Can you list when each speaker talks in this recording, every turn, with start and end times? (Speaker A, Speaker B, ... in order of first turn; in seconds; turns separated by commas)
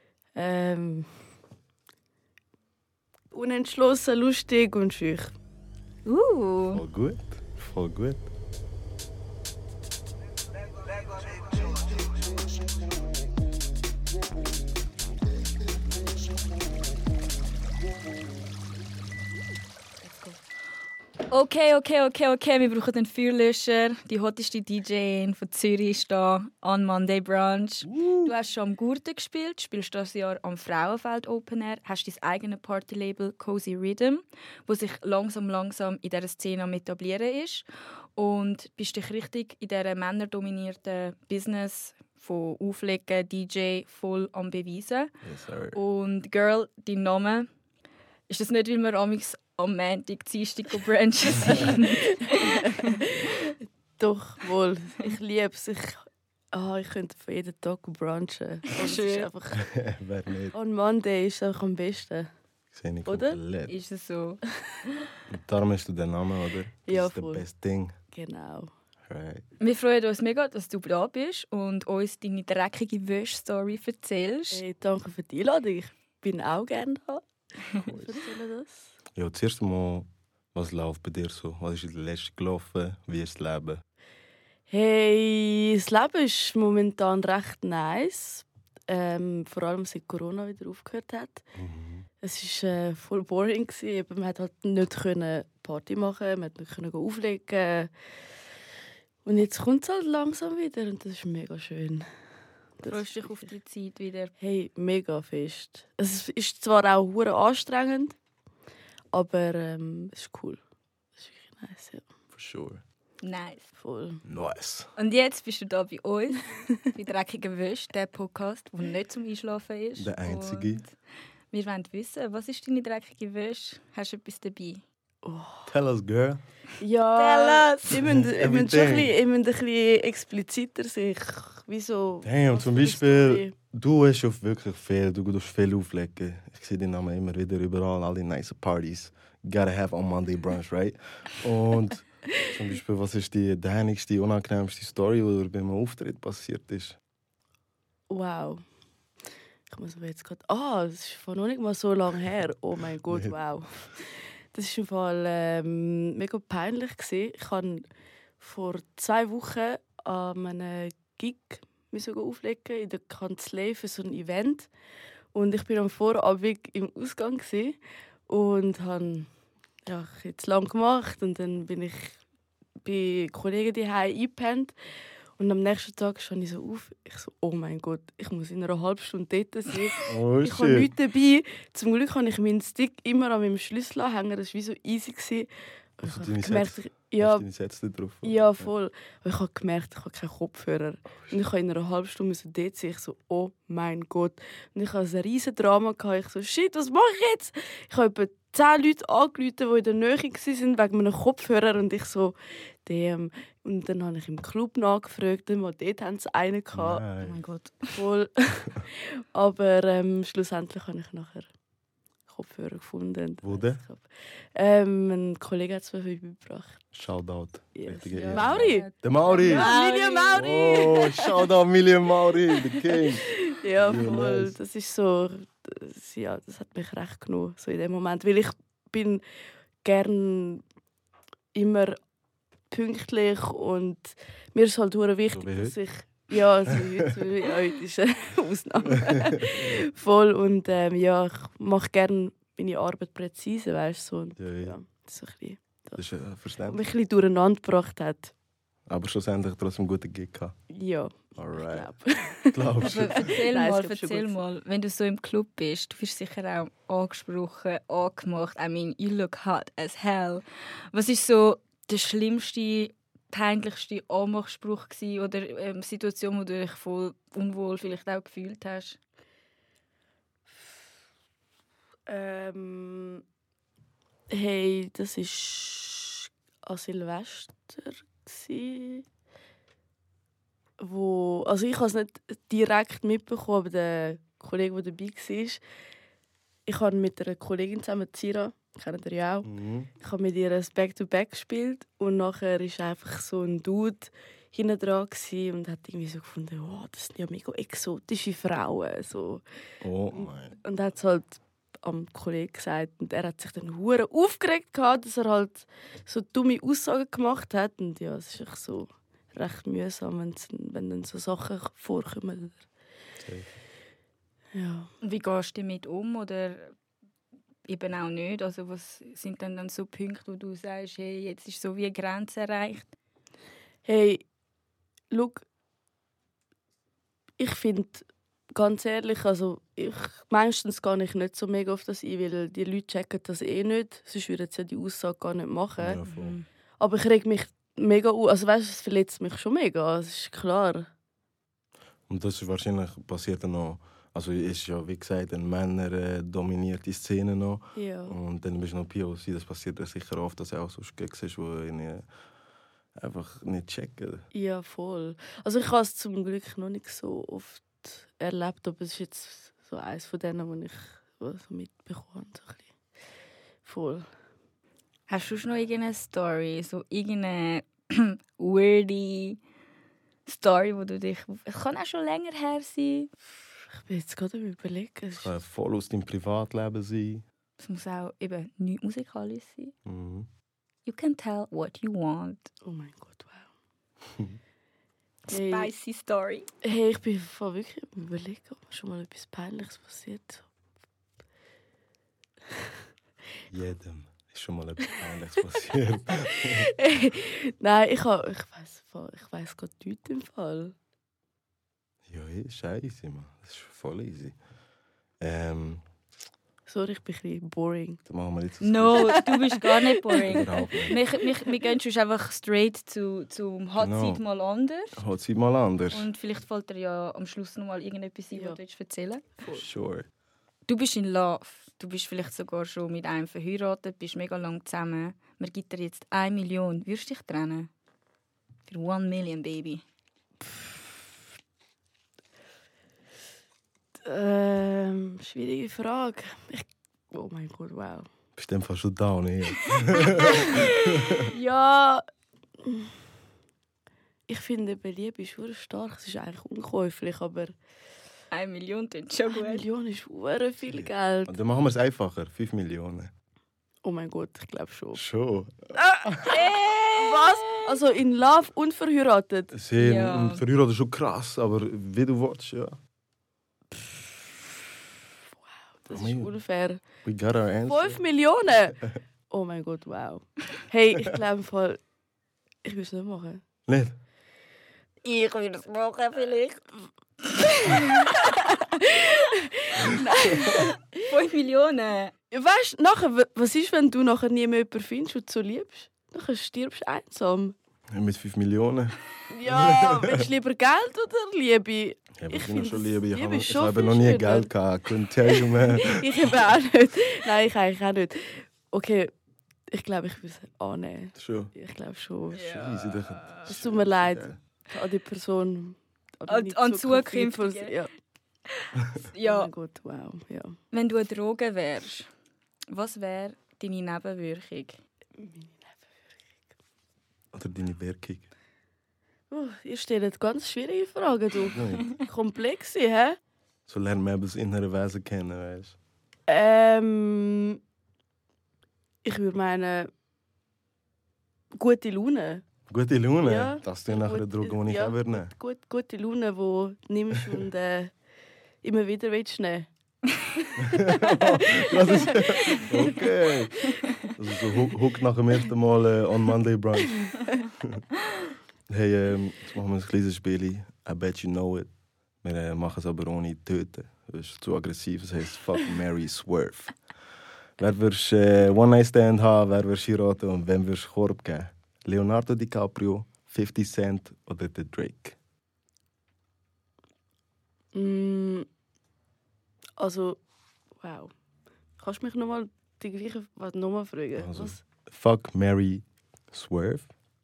Speaker A: 0.4-1.1, Speaker A: 3.3-5.3, Speaker B: 6.1-6.8, Speaker C: 6.7-8.3, Speaker A: 20.0-20.4, Speaker B: 21.3-45.1, Speaker C: 27.9-28.3, Speaker C: 45.2-45.8, Speaker B: 45.7-47.5, Speaker B: 48.3-53.0, Speaker A: 52.0-59.6, Speaker B: 58.8-59.3, Speaker C: 59.5-60.5, Speaker A: 60.5-62.3, Speaker C: 62.7-63.8, Speaker A: 63.1-63.4, Speaker B: 63.7-65.1, Speaker C: 65.3-68.0, Speaker A: 66.9-67.5, Speaker A: 68.1-68.7, Speaker C: 69.1-69.5, Speaker B: 69.6-74.6, Speaker A: 74.5-78.9, Speaker C: 77.8-78.2, Speaker C: 79.2-83.8, Speaker A: 84.7-91.4, Speaker C: 91.6-92.1, Speaker A: 92.2-97.9, Speaker A: 99.2-102.0, Speaker A: 102.8-103.5, Speaker B: 102.9-104.3, Speaker A: 104.4-108.2, Speaker A: 109.1-110.6, Speaker A: 111.2-112.0, Speaker C: 112.3-112.8, Speaker B: 113.2-113.7, Speaker A: 113.8-114.2, Speaker C: 114.2-114.9, Speaker B: 115.0-121.0, Speaker C: 120.0-120.8, Speaker B: 121.5-124.8, Speaker A: 125.2-125.7, Speaker C: 125.7-126.4, Speaker A: 126.8-133.5, Speaker B: 127.2-128.0, Speaker C: 127.9-129.1, Speaker C: 132.2-147.0, Speaker A: 148.1-148.6, Speaker A: 149.7-157.8, Speaker C: 153.1-153.3, Speaker A: 158.4-164.7, Speaker A: 165.3-169.3, Speaker A: 169.9-172.2, Speaker A: 172.8-174.7, Speaker A: 175.4-187.5, Speaker C: 180.1-180.9, Speaker C: 186.0-188.7, Speaker A: 188.2-207.1, Speaker C: 206.7-207.4, Speaker B: 207.2-208.0, Speaker A: 207.9-211.5, Speaker A: 212.3-216.8, Speaker C: 213.4-213.8, Speaker C: 216.9-219.7, Speaker A: 217.8-221.5, Speaker B: 218.3-221.0, Speaker C: 220.3-224.6, Speaker A: 222.5-229.2, Speaker A: 229.8-230.6, Speaker A: 231.5-232.0, Speaker A: 232.7-246.0, Speaker C: 235.3-235.8, Speaker C: 244.4-244.8, Speaker C: 246.0-246.8, Speaker A: 246.7-248.3, Speaker C: 248.9-250.6, Speaker A: 250.7-254.4, Speaker C: 251.3-251.9, Speaker C: 252.5-253.3, Speaker B: 252.8-269.0, Speaker A: 272.1-273.2, Speaker A: 274.3-279.1, Speaker A: 280.8-285.6, Speaker A: 286.7-289.5, Speaker C: 289.4-289.9, Speaker A: 290.0-299.4, Speaker C: 299.8-300.6, Speaker A: 300.1-312.6, Speaker C: 313.2-313.5, Speaker A: 314.6-314.9, Speaker B: 315.0-316.7, Speaker B: 317.7-322.9, Speaker A: 323.9-324.2, Speaker A: 325.1-325.4, Speaker A: 327.4-336.0, Speaker C: 335.8-336.4, Speaker B: 336.1-336.4, Speaker A: 336.8-340.9, Speaker C: 342.1-352.1, Speaker A: 347.8-348.2, Speaker C: 353.0-354.2, Speaker A: 354.3-362.7, Speaker A: 363.6-364.1, Speaker B: 365.1-369.4, Speaker B: 370.3-373.1, Speaker A: 373.8-375.3, Speaker C: 375.1-377.2, Speaker B: 377.6-379.7, Speaker C: 379.9-380.3, Speaker B: 380.9-382.5, Speaker A: 382.6-383.5, Speaker B: 385.3-386.5, Speaker A: 385.3-385.7, Speaker A: 386.6-390.5, Speaker C: 393.5-396.7, Speaker A: 396.4-400.7, Speaker C: 402.1-404.4, Speaker C: 405.2-405.8, Speaker A: 406.7-408.0, Speaker C: 408.1-409.2, Speaker B: 408.6-414.9, Speaker A: 408.9-410.2, Speaker C: 410.2-411.0, Speaker A: 410.9-411.5, Speaker C: 413.8-414.2, Speaker C: 415.0-416.1, Speaker B: 415.9-419.7, Speaker A: 418.3-418.6, Speaker C: 419.5-420.1, Speaker B: 420.7-427.7, Speaker B: 428.7-429.8, Speaker A: 434.1-438.1, Speaker C: 438.4-441.3, Speaker A: 440.2-440.7, Speaker A: 441.3-442.0, Speaker A: 442.6-442.9, Speaker A: 444.3-447.6, Speaker B: 448.3-449.6, Speaker A: 449.3-451.4, Speaker C: 450.7-453.1, Speaker A: 453.8-455.0, Speaker C: 454.9-456.3, Speaker A: 455.8-459.5, Speaker B: 456.3-457.6, Speaker C: 459.5-462.8, Speaker B: 459.8-460.4, Speaker A: 465.8-466.8, Speaker C: 465.9-466.3, Speaker C: 467.0-468.0, Speaker A: 467.6-471.8, Speaker A: 472.6-473.4, Speaker C: 473.7-474.0, Speaker B: 475.0-476.6, Speaker A: 477.4-481.0, Speaker B: 477.6-478.1, Speaker B: 480.5-482.1, Speaker A: 482.3-487.6, Speaker C: 487.9-490.2, Speaker A: 489.3-494.5, Speaker C: 492.2-496.1, Speaker A: 495.2-499.1, Speaker A: 499.7-502.5, Speaker C: 501.2-501.5, Speaker B: 502.3-503.5, Speaker C: 502.4-504.4, Speaker A: 503.5-507.9, Speaker B: 506.3-507.8, Speaker B: 508.5-509.5, Speaker A: 509.2-510.6, Speaker B: 510.7-512.1, Speaker B: 512.7-514.8, Speaker A: 515.2-516.1, Speaker C: 517.3-518.3, Speaker A: 519.3-523.2, Speaker C: 521.5-521.9, Speaker C: 523.7-525.8, Speaker A: 526.3-527.6, Speaker A: 529.0-529.9, Speaker A: 531.5-532.4, Speaker C: 532.7-535.3, Speaker A: 533.2-537.9, Speaker A: 538.6-539.7, Speaker C: 540.6-547.8, Speaker A: 540.7-542.9, Speaker A: 546.8-547.1, Speaker C: 548.7-551.7, Speaker C: 552.2-556.8, Speaker C: 557.6-565.2, Speaker A: 567.8-568.5, Speaker A: 569.8-570.2, Speaker A: 570.8-571.1, Speaker A: 571.8-574.6, Speaker C: 574.2-576.9